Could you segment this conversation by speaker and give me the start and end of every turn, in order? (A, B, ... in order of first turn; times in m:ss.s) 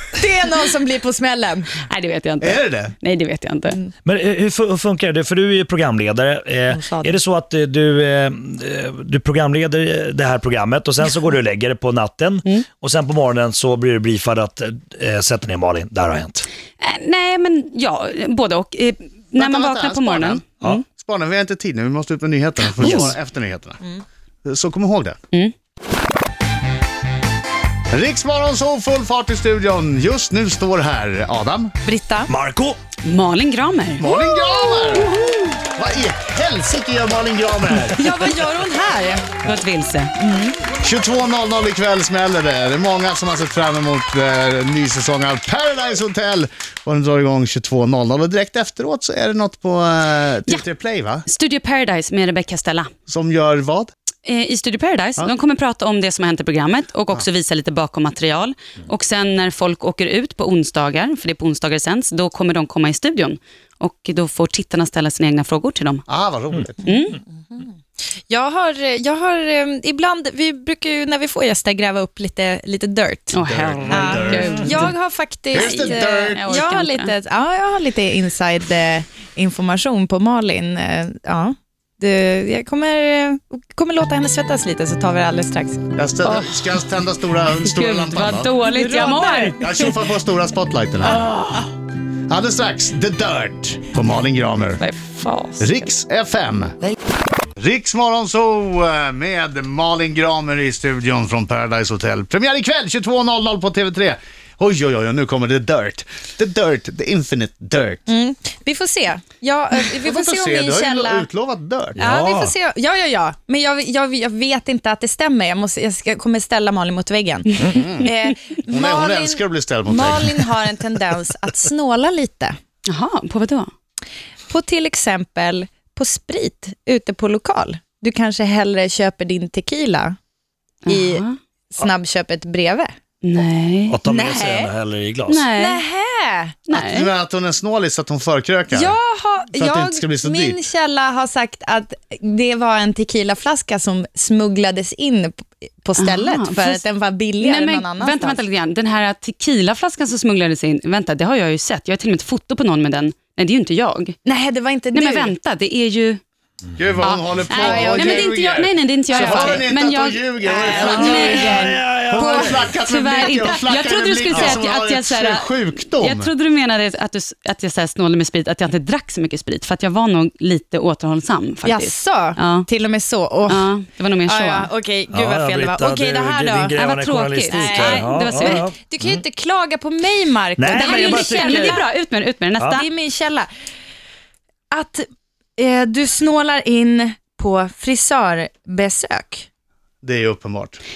0:00.2-0:01.7 A
0:01.8-0:03.8 B
0:02.4-0:03.0 C
0:04.0-0:16.4 D
0:06.7-0:07.1 A
0:16.8-0:20.8 B
0:19.4-0:20.4 C
0:21.0-0:23.8 C
0:22.8-0:23.1 D
0:24.4-0:25.2 C
0:27.9-0:31.7 C
0:31.8-0:32.3 A
0:32.3-0:32.8 D
0:33.0-0:34.0 B
0:34.0-0:38.0 C
0:34.1-0:34.9 A
0:38.0-0:39.3 A
0:39.4-0:40.1 B
0:40.2-0:40.6 A
0:40.8-0:51.2 C
0:51.2-0:52.9 B
0:53.1-0:53.9 C
0:54.2-1:06.0 B
1:06.1-1:06.8 C
1:06.8-1:07.2 B
1:08.3-1:13.4 A
1:13.3-1:14.9 B
1:13.5-1:14.8 D
1:13.9-1:25.8 A
1:15.5-1:16.5 C
1:15.5-1:17.1 B
1:25.9-1:28.5 C
1:26.2-1:26.7 B
1:27.6-1:29.9 B
1:28.6-1:29.6 A
1:29.6-1:31.2 C
1:31.1-1:31.6 B
1:31.1-1:31.4 A
1:32.3-1:34.8 C
1:34.8-1:35.9 B
1:35.6-1:36.8 C
1:37.6-1:48.0 C
1:48.1-1:51.3 A
1:50.0-1:52.0 C
1:52.0-1:52.5 D
1:52.0-2:02.6 A
1:57.7-1:58.1 C
1:58.7-2:00.4 C
2:02.9-2:03.7 B
2:04.5-2:10.2 A
2:10.8-2:11.3 B
2:10.9-2:12.9 A
2:13.2-2:14.0 B
2:13.9-2:15.4 D
2:14.0-2:14.7 A
2:15.3-2:15.8 B
2:15.5-2:16.6 A
2:16.7-2:17.1 B
2:16.7-2:19.0 C
2:18.7-2:28.4 A
2:19.5-2:20.6 C
2:26.0-2:26.8 B
2:27.4-2:34.2 B
2:34.2-2:35.3 A
2:34.9-2:36.2 B
2:36.8-2:41.4 C
2:37.0-2:41.8 B
2:37.5-2:38.4 A
2:39.1-2:39.6 A
2:40.4-2:43.6 A
2:40.8-2:42.7 D
2:42.0-2:46.3 C
2:42.8-2:52.7 B
2:44.3-2:44.6 D
2:51.6-2:53.7 A
2:53.5-2:54.7 B
2:54.2-2:56.8 A
2:55.1-2:59.2 D
2:56.8-2:58.6 B
2:57.3-3:01.8 A
3:00.6-3:01.8 D
3:00.7-3:02.9 B
3:02.6-3:02.8 D
3:02.7-3:03.5 A
3:04.7-3:09.4 A
3:10.0-3:10.8 C